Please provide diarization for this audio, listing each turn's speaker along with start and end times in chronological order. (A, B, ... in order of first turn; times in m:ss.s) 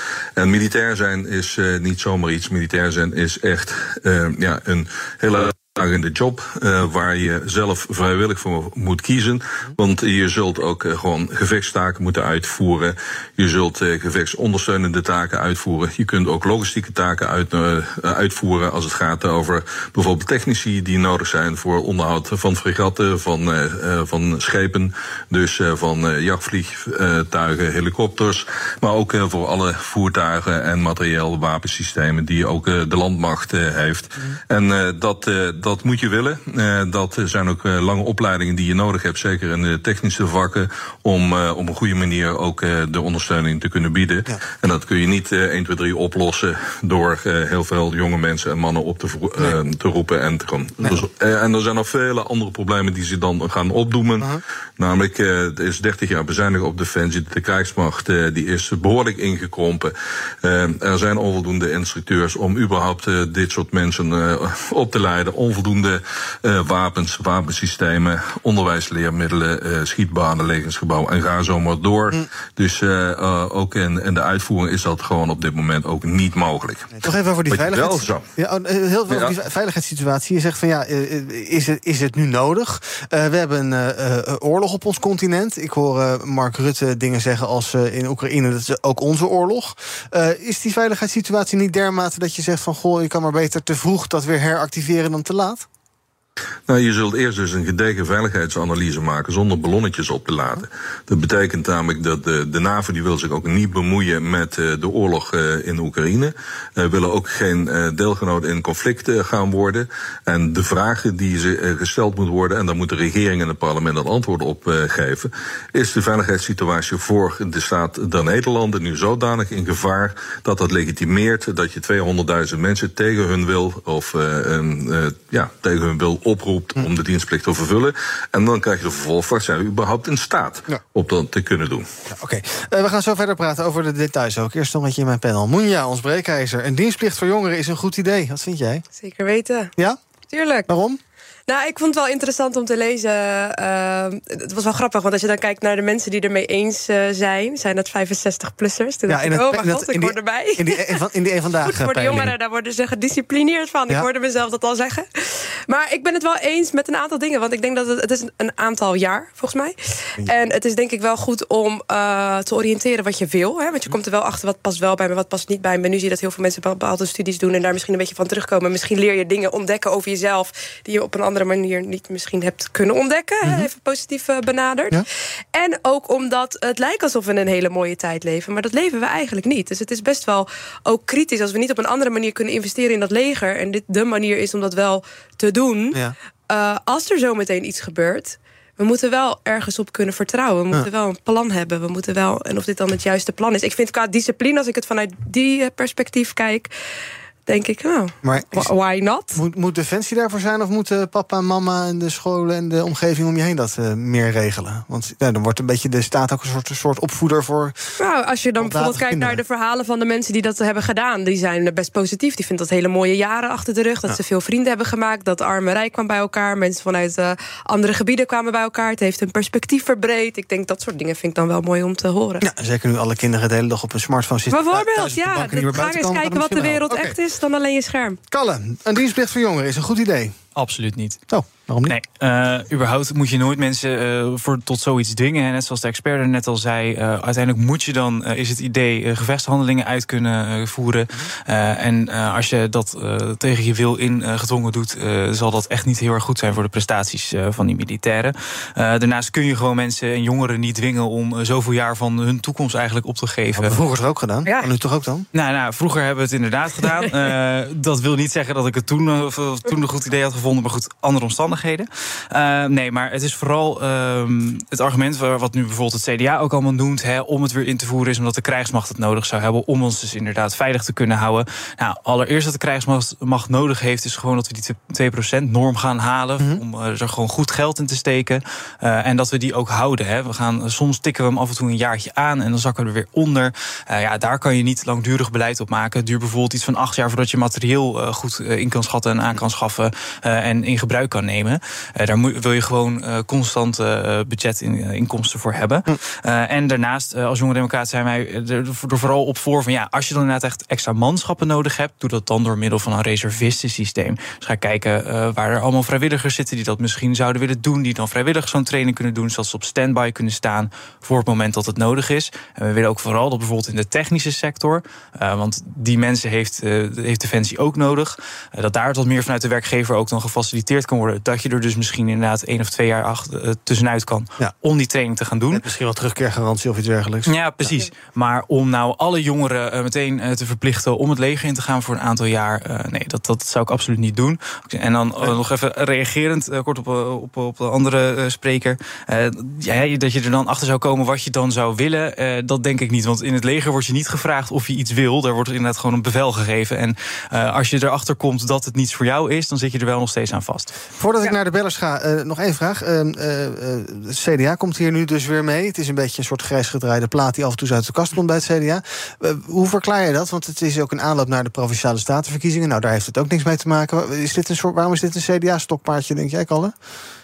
0:00.4-1:18.2 A
1:17.0-1:35.7 B
1:36.7-2:11.9 A
2:12.1-2:18.8 B
2:19.0-2:19.7 C
2:20.3-2:20.7 C
2:20.7-2:21.0 B
2:21.5-2:31.0 C
2:29.1-2:32.3 B
2:31.6-3:16.7 C
2:53.4-2:53.7 B
3:17.5-3:19.4 C
3:18.2-3:18.7 B
3:19.3-3:27.8 B
3:28.0-3:42.4 C
3:28.6-3:29.4 B
3:42.4-3:47.2 B
3:44.5-3:48.2 C
3:48.3-3:50.4 B
3:50.6-3:51.2 D
3:51.3-3:52.0 B
3:51.9-4:13.8 D
4:13.6-4:15.3 B
4:15.3-5:25.6 D
5:25.5-5:27.9 B
5:27.3-5:50.8 D
5:51.0-6:06.8 B